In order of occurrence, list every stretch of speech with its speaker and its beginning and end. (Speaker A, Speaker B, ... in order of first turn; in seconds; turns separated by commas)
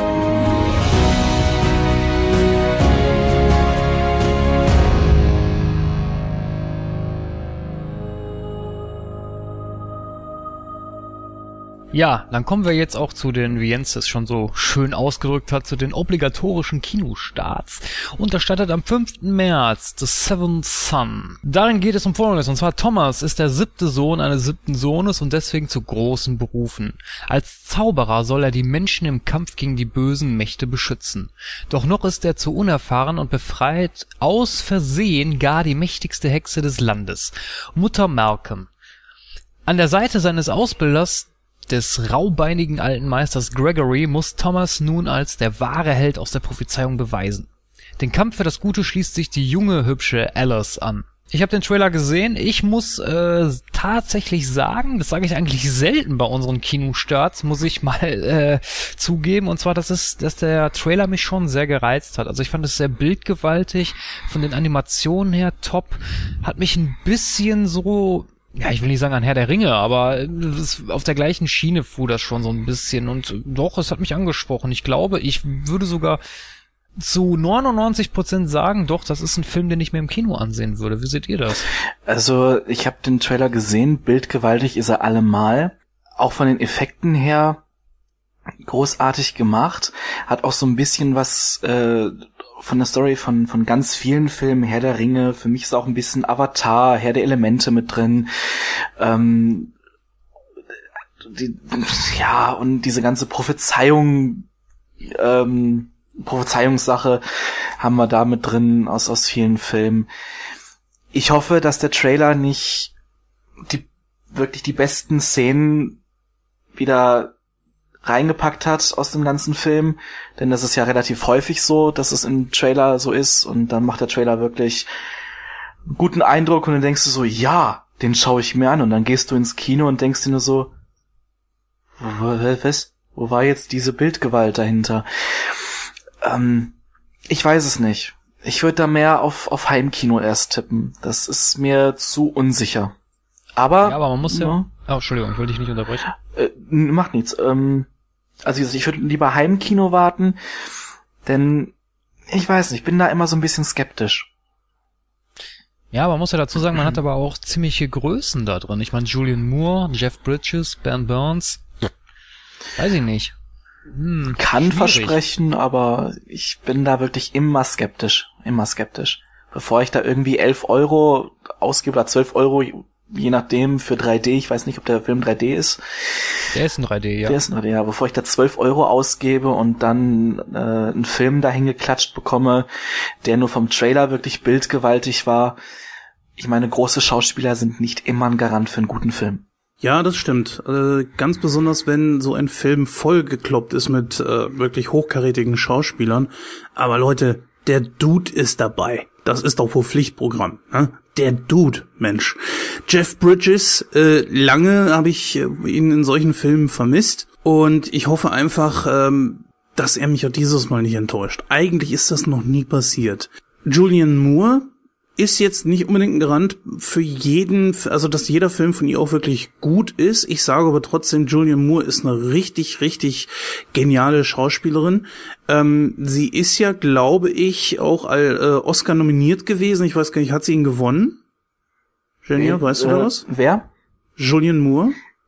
Speaker A: 11.9-38.7, Speaker A: 39.6-76.2, Speaker A: 77.0-81.7, Speaker B: 82.1-87.6, Speaker B: 88.6-99.7, Speaker B: 101.2-104.5, Speaker B: 105.0-110.1, Speaker B: 111.1-112.9, Speaker B: 113.7-116.0, Speaker B: 116.7-117.3, Speaker B: 118.0-124.9, Speaker B: 125.9-130.7, Speaker B: 132.0-136.8, Speaker B: 137.3-142.9, Speaker B: 143.6-144.7, Speaker A: 143.8-146.1, Speaker B: 146.3-147.9, Speaker B: 148.4-150.4, Speaker B: 151.2-151.7, Speaker B: 152.3-154.3, Speaker A: 155.9-161.6, Speaker A: 162.8-163.3, Speaker A: 163.9-165.2, Speaker B: 164.4-176.3, Speaker A: 176.5-177.4, Speaker B: 177.2-182.7, Speaker B: 183.2-185.6, Speaker B: 186.4-189.4, Speaker C: 189.8-231.2, Speaker C: 232.2-233.2, Speaker B: 232.3-233.7, Speaker C: 234.2-235.0